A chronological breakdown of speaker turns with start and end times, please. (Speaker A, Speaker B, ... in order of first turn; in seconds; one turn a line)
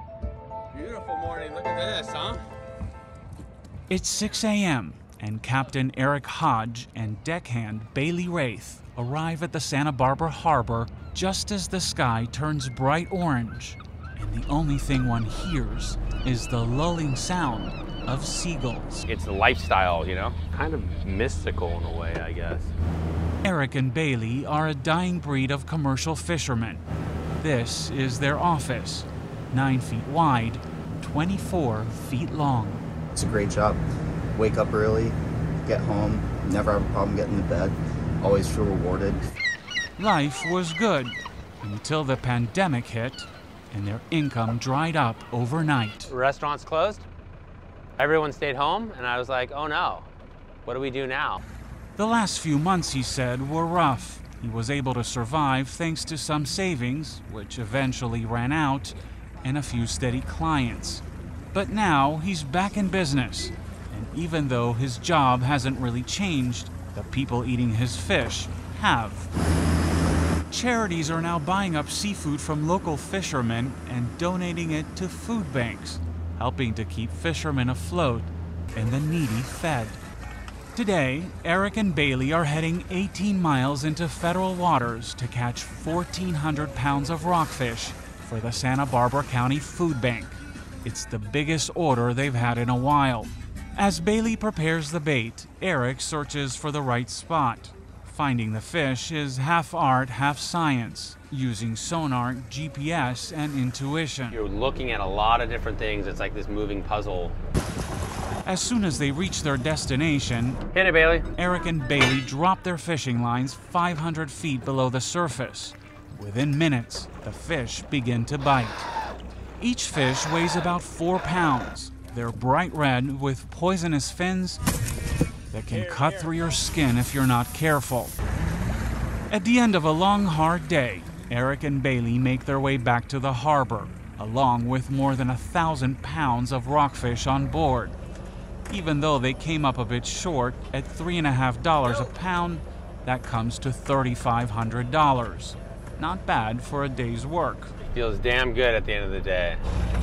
Speaker A: 0.7-2.4
Speaker B: 3.9-19.1
Speaker A: 19.1-22.7
Speaker B: 23.4-26.8
Speaker B: 27.4-32.9
Speaker C: 33.1-33.8
Speaker C: 34.4-39.2
Speaker B: 40.0-46.1
Speaker A: 46.0-47.0
Speaker A: 48.0-50.1
Speaker A: 50.6-51.4
Speaker B: 52.0-69.3
Speaker B: 70.5-80.0
Speaker B: 80.8-104.4
Speaker A: 104.3-107.4
Speaker B: 108.5-110.6
Speaker A: 110.7-111.3
Speaker B: 111.3-118.9
Speaker B: 119.6-124.6
Speaker B: 125.5-128.2
Speaker B: 129.3-138.0
Speaker B: 138.7-147.7
Speaker A: 147.9-149.6